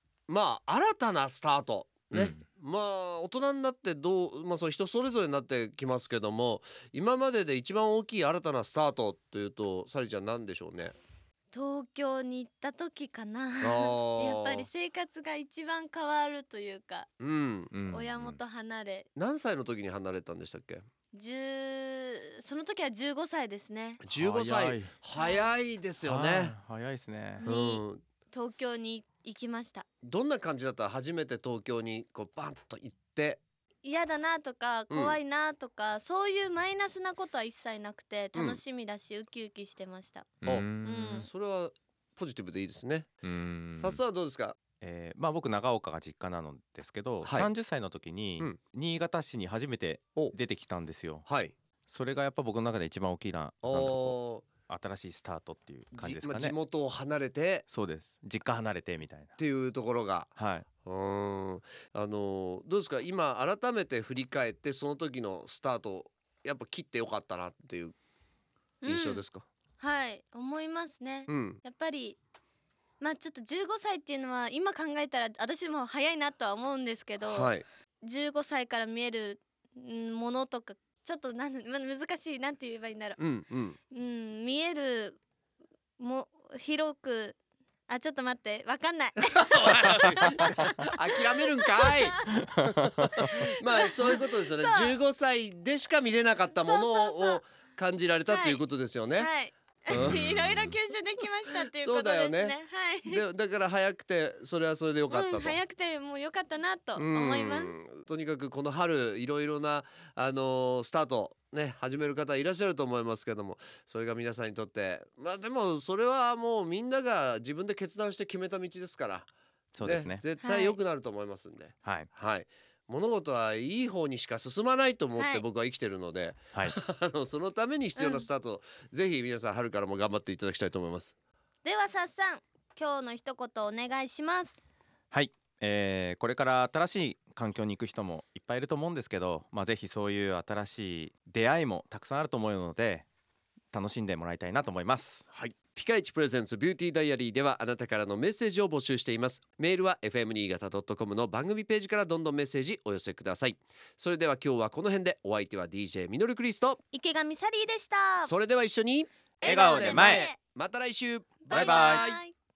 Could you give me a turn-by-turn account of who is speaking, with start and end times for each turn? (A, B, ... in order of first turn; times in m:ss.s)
0:00.3-0:10.9 A
0:02.1-0:02.4 B
0:11.5-0:17.1 C
0:13.6-0:14.7 A
0:17.2-0:17.7 A
0:17.7-0:18.4 B
0:17.9-0:19.1 C
0:19.2-0:20.8 A
0:21.1-0:24.0 C
0:24.0-0:26.6 A
0:24.2-0:24.9 B
0:25.2-0:25.5 C
0:26.0-0:27.5 B
0:27.4-0:29.8 C
0:27.4-0:28.0 A
0:30.0-0:33.4 A
0:33.8-0:40.3 C
0:34.9-0:35.2 A
0:38.4-0:38.6 A
0:40.4-0:41.3 B
0:40.4-0:43.1 A
0:40.8-0:41.3 C
0:43.2-0:44.0 B
0:43.8-0:44.6 A
0:44.8-0:51.3 B
0:47.2-0:47.5 A
0:51.3-0:51.6 A
0:51.9-0:56.6 B
0:53.6-0:54.5 A
0:55.9-0:57.7 A
0:57.7-0:59.4 B
0:59.4-1:00.3 A
1:00.4-1:00.7 B
1:00.8-1:08.0 A
1:08.8-1:09.2 C
1:08.9-1:09.4 A
1:09.8-1:12.2 C
1:11.3-1:11.6 A
1:13.0-1:23.2 C
1:17.2-1:17.6 A
1:23.2-1:23.8 A
1:23.9-1:25.2 C
1:26.0-1:27.4 C
1:27.9-1:30.8 C
1:29.4-1:39.3 A
1:31.7-1:32.3 C
1:32.6-1:33.1 B
1:33.2-1:35.0 C
1:36.5-1:37.4 C
1:38.3-1:38.6 C
1:39.1-1:43.2 C
1:39.9-1:40.3 A
1:40.0-1:40.7 B
1:41.8-1:45.6 A
1:45.1-1:47.8 C
1:47.0-1:59.3 A
1:59.8-2:00.2 B
1:59.8-2:11.2 A
2:00.4-2:00.8 C
2:01.8-2:02.1 B
2:05.2-2:05.4 C
2:08.0-2:08.3 C
2:11.6-2:14.6 C
2:15.1-2:23.1 B
2:23.7-2:25.3 B
2:25.3-2:36.8 A
2:36.9-2:38.3 C
2:38.2-2:42.2 A
2:39.4-2:40.4 C
2:39.4-2:40.3 B
2:41.5-2:42.3 C
2:41.5-2:42.1 B